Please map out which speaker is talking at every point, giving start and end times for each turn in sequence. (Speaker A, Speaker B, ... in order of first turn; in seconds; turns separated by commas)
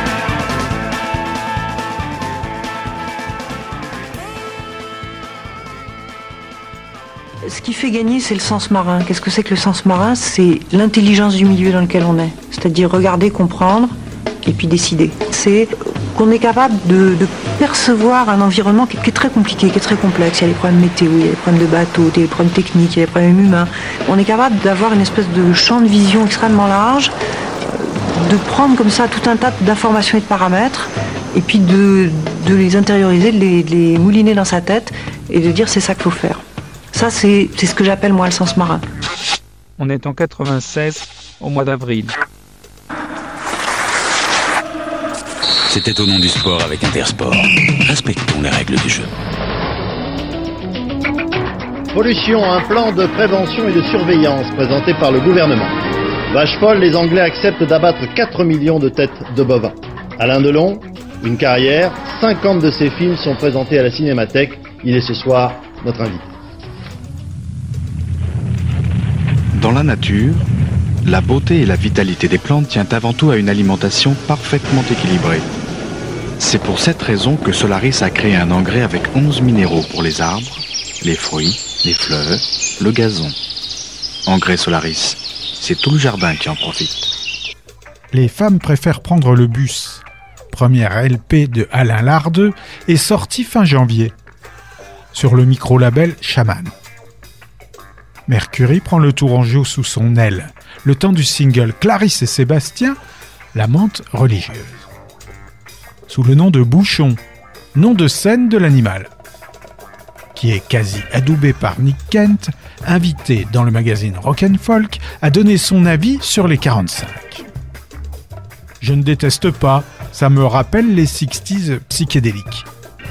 Speaker A: 7.4-27.1, Speaker A: 27.8-36.4, Speaker A: 36.9-38.8, Speaker B: 39.8-42.2, Speaker C: 45.7-49.1, Speaker D: 51.9-55.8, Speaker D: 56.3-66.3, Speaker E: 69.5-70.4, Speaker E: 71.0-75.5, Speaker E: 76.4-83.3, Speaker E: 84.2-87.1, Speaker F: 88.1-94.1, Speaker F: 95.1-96.7, Speaker F: 98.3-103.0, Speaker F: 103.5-104.8, Speaker F: 106.1-107.2, Speaker F: 107.7-109.1, Speaker F: 110.3-117.5, Speaker F: 118.8-122.7